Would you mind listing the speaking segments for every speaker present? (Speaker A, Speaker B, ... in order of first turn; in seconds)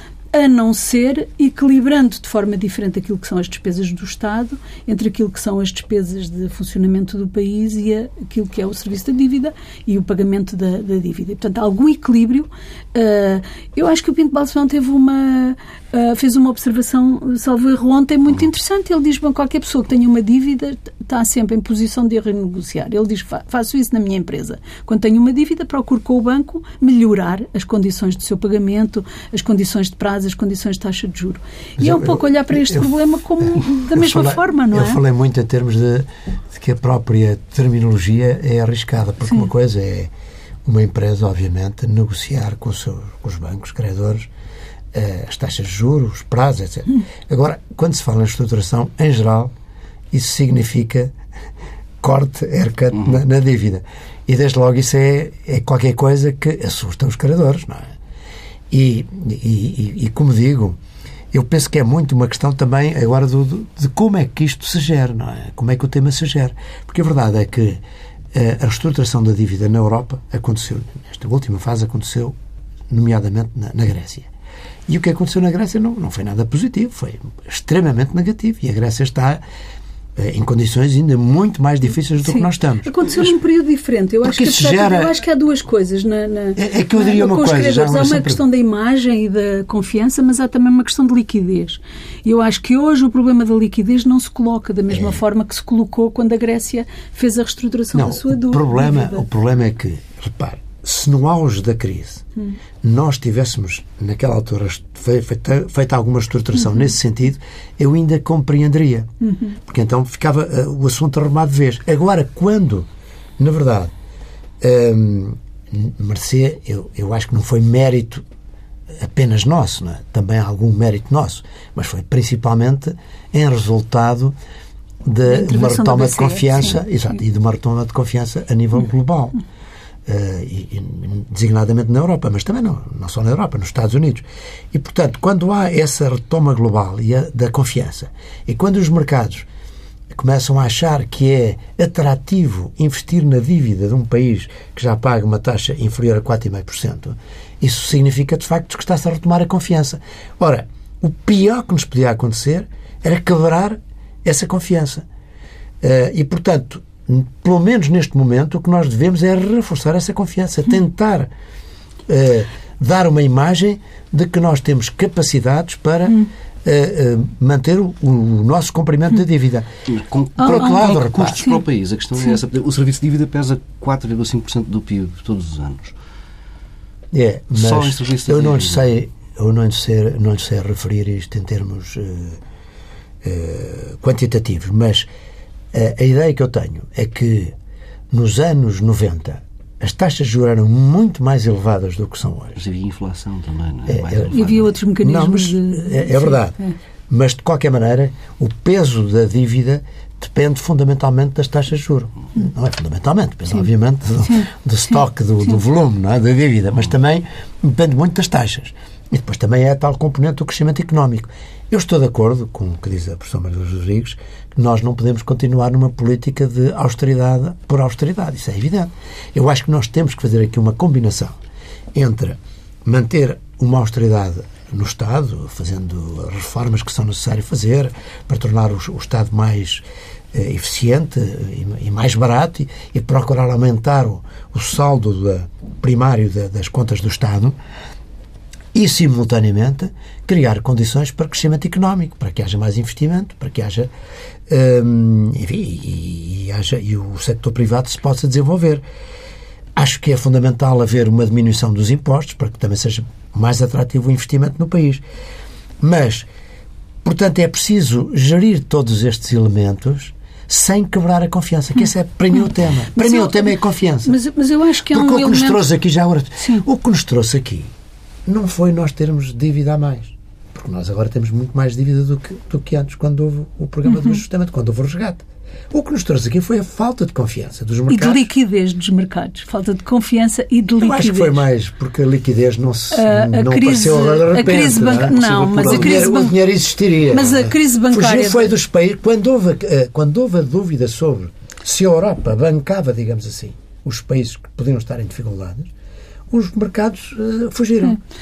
Speaker A: 0.3-35.0, 82.2-99.2, 109.2-109.5, 125.3-126.8, 170.4-171.6, 194.3-196.7, 262.9-265.6, 277.9-281.4, 282.9-286.3, 287.1-288.5
Speaker B: 31.8-32.9, 33.9-40.1, 40.6-44.3, 44.9-49.5, 50.1-51.1, 52.0-57.9, 58.7-60.8, 61.3-67.8, 68.3-72.3, 72.9-74.3, 74.9-79.4, 80.2-83.3, 84.2-85.1, 86.6-88.4, 97.9-102.2, 102.8-112.9, 113.4-113.9, 114.6-118.2, 118.9-124.3, 125.0-129.4, 130.1-139.4, 140.1-155.1, 155.8-161.3, 162.1-169.7, 170.4-171.4, 177.1-182.4, 183.2-185.1, 185.7-187.5, 188.1-192.6, 193.9-196.6, 197.1-221.4, 221.9-237.5, 238.7-243.9, 244.5-248.8, 249.8-255.0, 255.8-256.3, 257.0-264.2, 264.9-267.7, 268.2-278.3, 280.8-295.7, 296.3-298.0
Speaker C: 169.9-175.9, 177.5-178.9, 192.6-194.6, 285.3-286.0